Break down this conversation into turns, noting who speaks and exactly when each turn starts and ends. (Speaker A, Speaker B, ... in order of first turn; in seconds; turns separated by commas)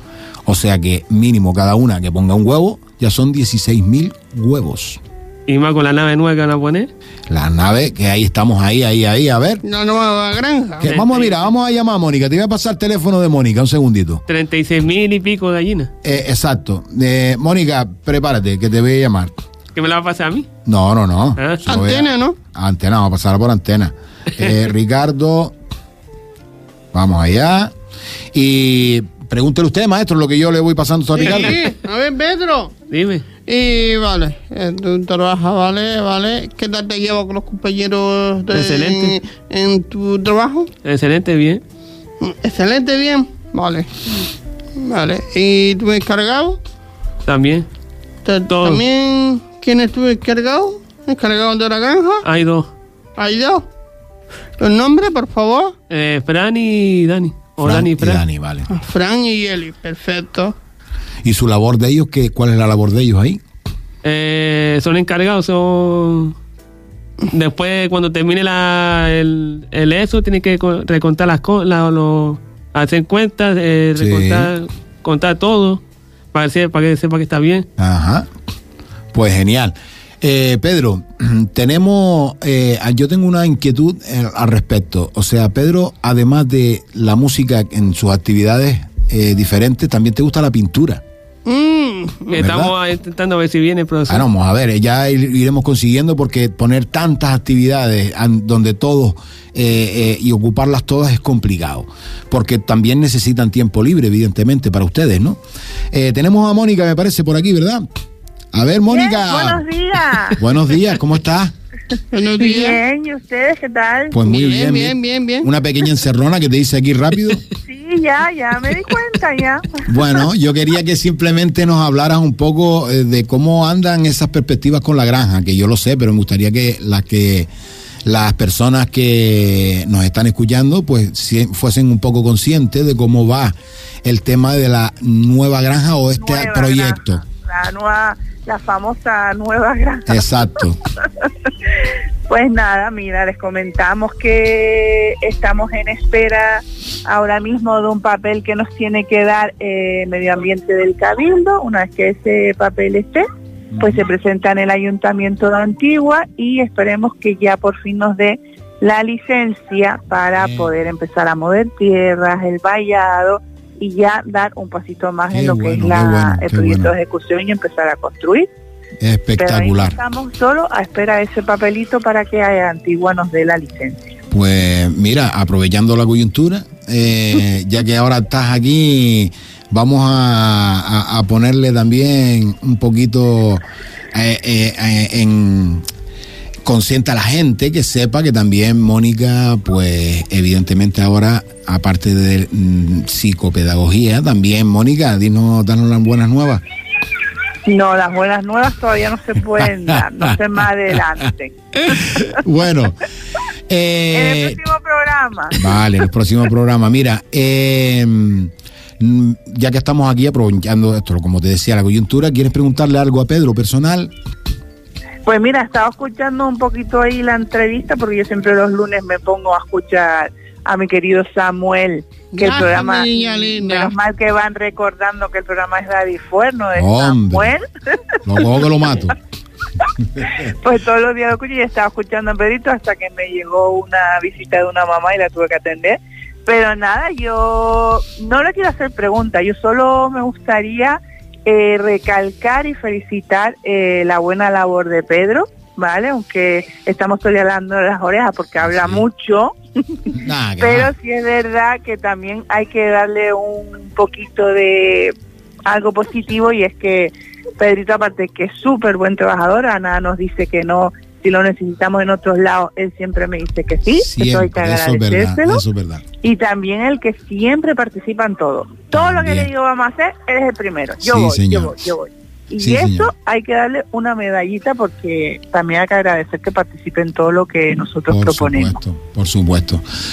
Speaker A: 0.4-5.0, Speaker B: 5.5-6.9, Speaker A: 7.3-9.6, Speaker C: 9.6-10.9, Speaker A: 10.8-14.2, Speaker B: 10.8-11.5, Speaker B: 14.3-15.9, Speaker A: 16.0-19.3, Speaker B: 19.7-20.5, Speaker A: 20.6-25.5, Speaker B: 21.4-21.8, Speaker C: 21.7-22.4, Speaker A: 26.9-27.7, Speaker A: 28.3-31.6, Speaker C: 31.1-32.7, Speaker B: 31.2-31.5, Speaker B: 32.9-33.2, Speaker C: 33.5-40.7, Speaker B: 38.5-39.2, Speaker B: 40.8-41.6, Speaker C: 42.2-46.6, Speaker B: 47.2-47.7, Speaker C: 48.2-52.2, Speaker B: 48.5-48.8, Speaker B: 52.2-52.7, Speaker C: 53.2-53.6, Speaker C: 54.6-55.7, Speaker B: 55.9-58.2, Speaker A: 57.6-58.7, Speaker C: 58.7-60.5, Speaker A: 61.2-63.4, Speaker B: 64.0-66.3, Speaker B: 67.3-75.8, Speaker A: 74.0-74.5, Speaker B: 76.3-77.7, Speaker A: 77.8-78.3, Speaker A: 79.1-91.0, Speaker C: 91.5-92.3, Speaker B: 92.3-94.2, Speaker A: 92.3-92.7, Speaker A: 94.1-105.4, Speaker A: 105.9-107.8, Speaker A: 108.5-109.6, Speaker D: 108.9-110.4, Speaker A: 110.3-111.5, Speaker C: 112.1-112.8, Speaker D: 112.4-114.2, Speaker A: 114.1-117.4, Speaker C: 114.2-115.5, Speaker D: 117.7-119.8, Speaker A: 119.8-127.5, Speaker A: 128.0-137.2, Speaker D: 136.2-140.2, Speaker A: 140.1-140.8, Speaker D: 142.3-153.2, Speaker A: 153.7-154.0, Speaker D: 153.8-168.5, Speaker A: 165.3-166.9, Speaker A: 169.0-170.0, Speaker D: 169.4-174.1, Speaker A: 174.3-185.8, Speaker A: 186.6-196.6, Speaker D: 197.7-202.2, Speaker A: 199.6-200.4, Speaker A: 201.8-203.0, Speaker A: 203.7-204.6, Speaker D: 204.1-205.6, Speaker A: 205.5-214.1, Speaker D: 215.2-227.6, Speaker C: 222.3-223.9, Speaker A: 226.7-227.5, Speaker A: 228.2-229.2, Speaker D: 230.2-249.5, Speaker A: 248.6-249.0, Speaker A: 250.1-250.9, Speaker D: 250.6-255.1, Speaker D: 255.7-265.6, Speaker A: 263.9-266.0, Speaker D: 266.2-278.8, Speaker A: 268.9-269.5, Speaker A: 271.0-271.8, Speaker A: 272.6-273.1, Speaker A: 278.1-279.8